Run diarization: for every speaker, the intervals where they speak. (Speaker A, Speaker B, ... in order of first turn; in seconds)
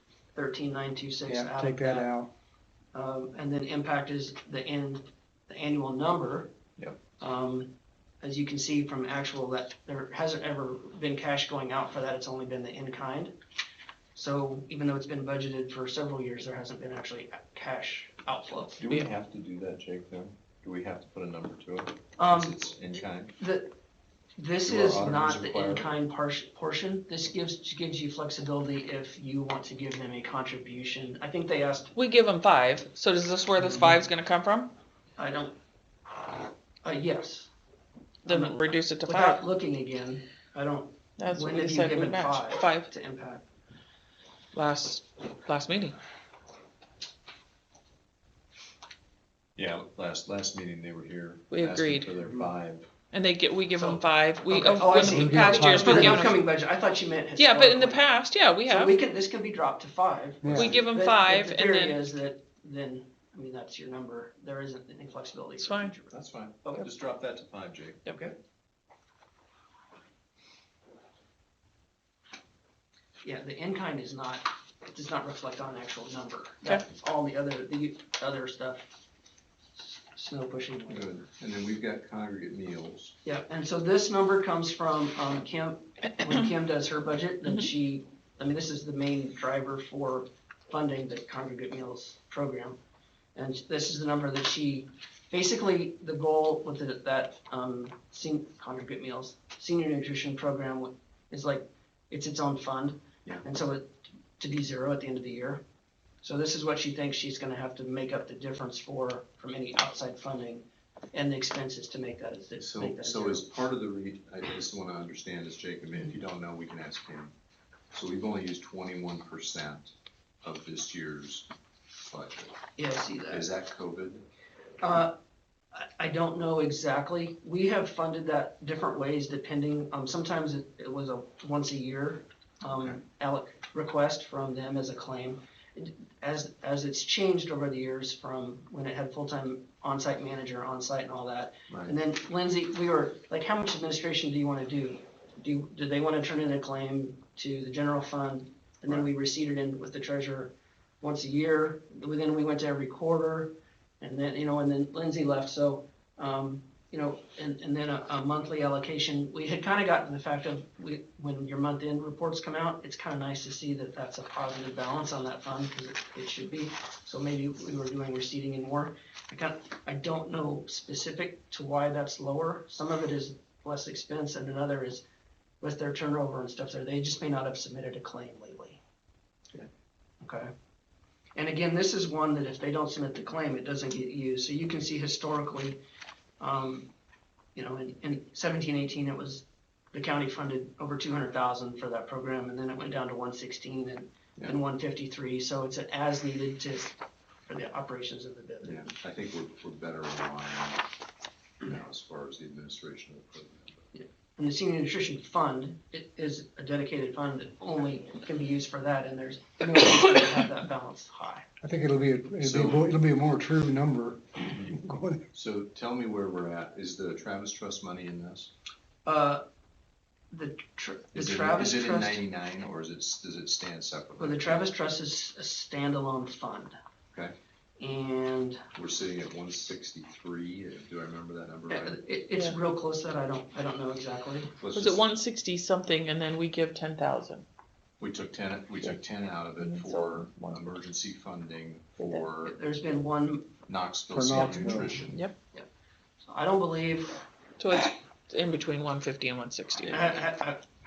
Speaker A: 0.3-2.1, 2.9-6.5, 7.2-13.3, 14.1-18.8, 22.2-22.6, 23.4-23.7, 24.4-31.9, 35.2-35.5, 36.8-37.5, 38.2-43.5, 53.7-58.0, 58.6-66.9, 73.2-78.9, 79.8-81.2, 83.2-92.8, 93.3-105.6, 106.2-113.5, 122.8-123.5, 124.8-125.1, 125.7-175.0, 175.6-178.8, 180.2-180.5, 181.3-185.8, 186.4-186.9, 187.5-198.9, 203.9-211.5, 219.1-219.4, 220.3-222.2, 224.2-226.8, 227.8-228.7, 231.7-234.6, 242.4-243.6, 246.2-247.2, 249.9-250.6
Speaker B: 1.2-2.3, 54.9-56.4, 60.4-60.8, 211.6-215.3, 244.1-245.0
Speaker C: 18.8-23.3, 24.6-25.9, 49.5-52.9, 66.1-68.3, 80.9-83.2, 112.6-117.3, 117.9-121.5, 122.0-122.6, 123.3-124.2, 132.7-133.0, 141.7-141.9, 198.6-200.8, 201.6-203.9, 212.4-212.8, 215.3-218.5, 221.1-224.7, 228.7-232.0, 234.6-235.0, 238.0-242.6, 243.7-245.2
Speaker D: 31.9-34.7, 38.2-39.4, 41.2-42.9, 44.5-46.0, 51.5-52.1, 53.1-56.4, 57.4-59.0, 60.5-62.1, 65.6-65.9, 234.7-237.4, 239.6-240.7, 247.6-250.2